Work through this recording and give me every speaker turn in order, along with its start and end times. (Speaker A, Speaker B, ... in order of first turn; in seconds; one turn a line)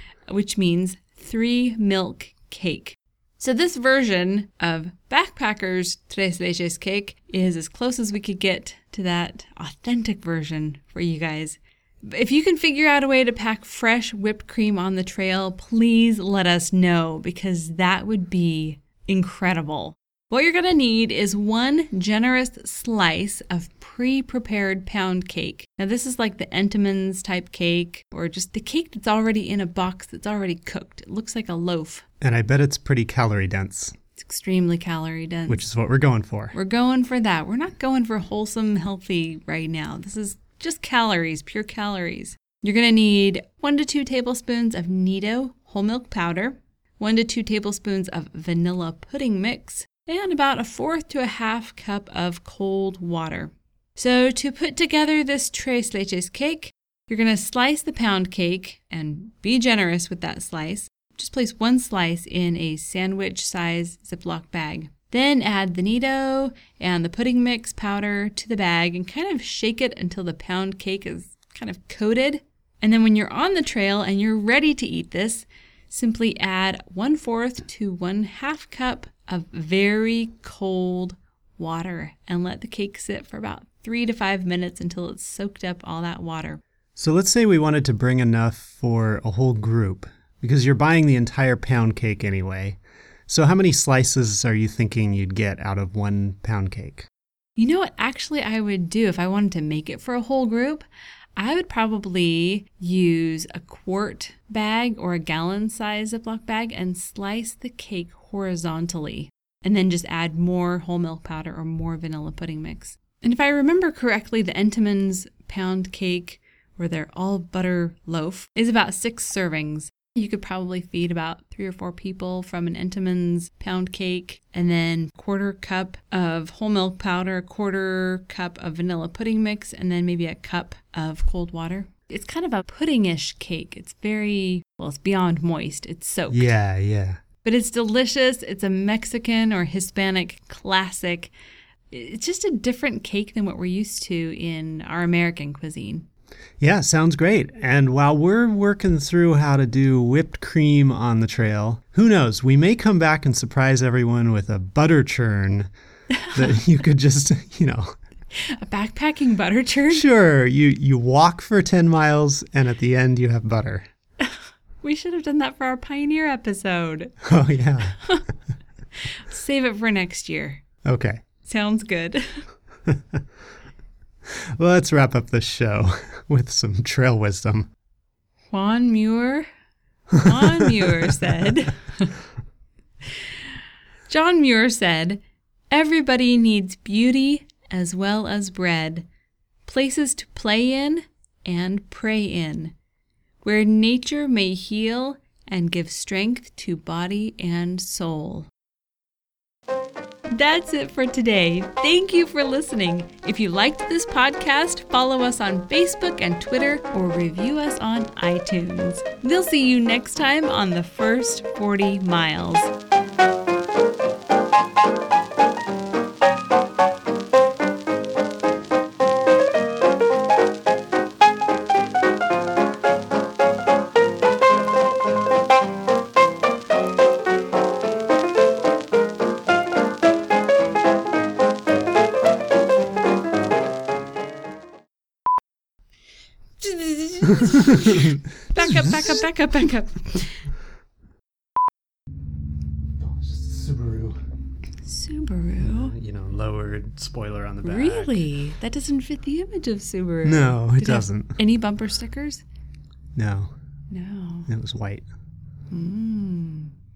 Speaker A: 0.3-32.0
Speaker B: 32.2-34.0
Speaker A: 34.1-35.6
Speaker B: 35.5-36.5
Speaker A: 36.5-86.6
Speaker B: 87.0-97.1
Speaker A: 97.6-100.8
Speaker A: 101.4-136.5
Speaker B: 136.3-137.2
Speaker A: 137.4-141.3
Speaker A: 141.9-146.1
Speaker B: 146.6-155.7
Speaker A: 156.1-156.6
Speaker B: 156.3-157.9
Speaker A: 158.3-160.0
Speaker B: 159.9-163.9
Speaker A: 164.2-167.2
Speaker B: 167.2-168.0
Speaker A: 168.9-170.6
Speaker B: 170.8-171.2
Speaker A: 171.4-172.5
Speaker B: 172.9-173.2
Speaker B: 174.3-177.7
Speaker A: 178.5-179.5
Speaker A: 180.1-182.1
Speaker A: 183.1-183.4
Speaker A: 184.1-189.0
Speaker A: 189.7-192.7
Speaker A: 193.4-198.5
Speaker A: 200.3-212.7
Speaker A: 236.6-240.4
Speaker B: 238.1-239.1
Speaker B: 243.0-244.2
Speaker A: 244.8-245.9
Speaker B: 245.6-248.2
Speaker A: 247.6-252.4
Speaker B: 250.2-251.4
Speaker B: 253.1-253.5
Speaker A: 253.9-254.5
Speaker B: 254.5-255.0
Speaker A: 255.7-256.7